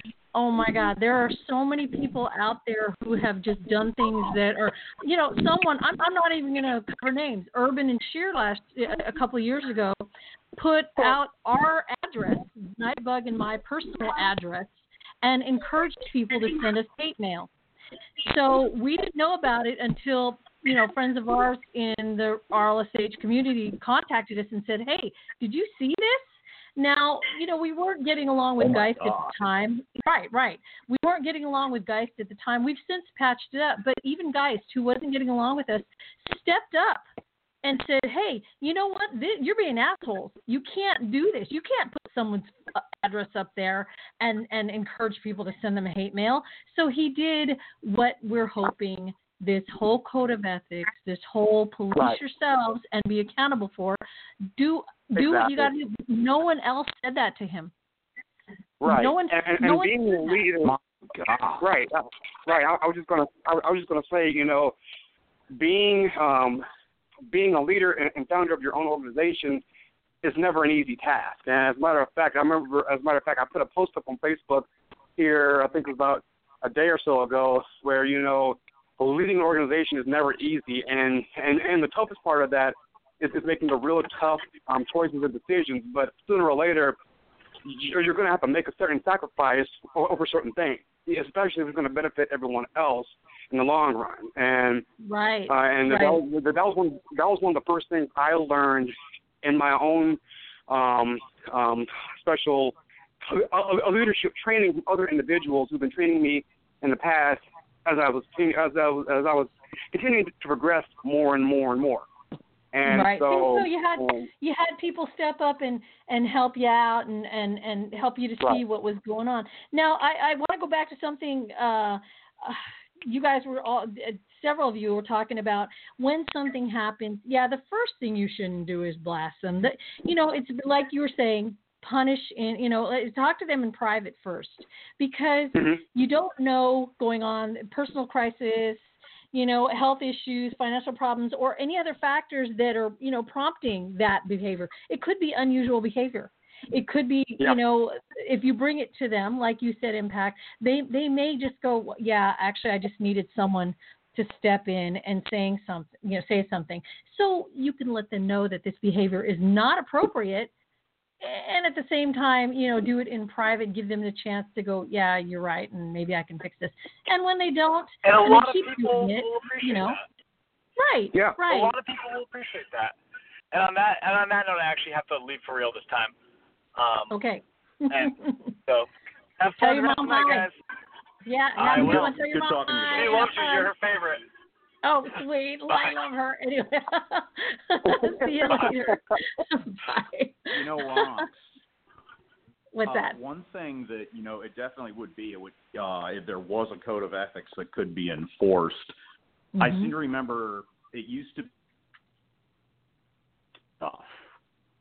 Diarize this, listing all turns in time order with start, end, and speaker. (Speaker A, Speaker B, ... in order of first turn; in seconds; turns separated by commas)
Speaker A: 0.3-17.5, Speaker A: 18.2-37.0, Speaker B: 28.6-29.3, Speaker A: 37.6-54.0, Speaker A: 54.6-57.7, Speaker C: 55.2-55.6, Speaker C: 58.8-60.8, Speaker A: 58.9-60.4, Speaker B: 60.6-61.6, Speaker C: 61.6-64.7, Speaker C: 65.5-66.6, Speaker C: 67.3-69.6, Speaker C: 70.2-87.0, Speaker C: 87.6-94.8, Speaker A: 95.0-96.2, Speaker C: 95.5-112.1, Speaker C: 112.7-114.3, Speaker A: 112.8-160.5, Speaker C: 135.5-135.8, Speaker A: 161.2-170.0, Speaker D: 168.0-170.0, Speaker A: 170.8-171.7, Speaker D: 171.4-172.9, Speaker D: 173.5-176.1, Speaker D: 176.8-177.1, Speaker A: 177.1-178.5, Speaker D: 178.7-180.6, Speaker A: 179.6-180.5, Speaker A: 181.2-183.7, Speaker D: 181.6-182.2, Speaker B: 181.7-183.3, Speaker D: 182.9-184.2, Speaker A: 184.8-191.2, Speaker C: 187.8-188.9, Speaker B: 190.5-191.5, Speaker A: 192.7-193.2, Speaker B: 192.8-198.9, Speaker A: 199.6-199.9, Speaker B: 199.6-201.5, Speaker B: 203.8-204.2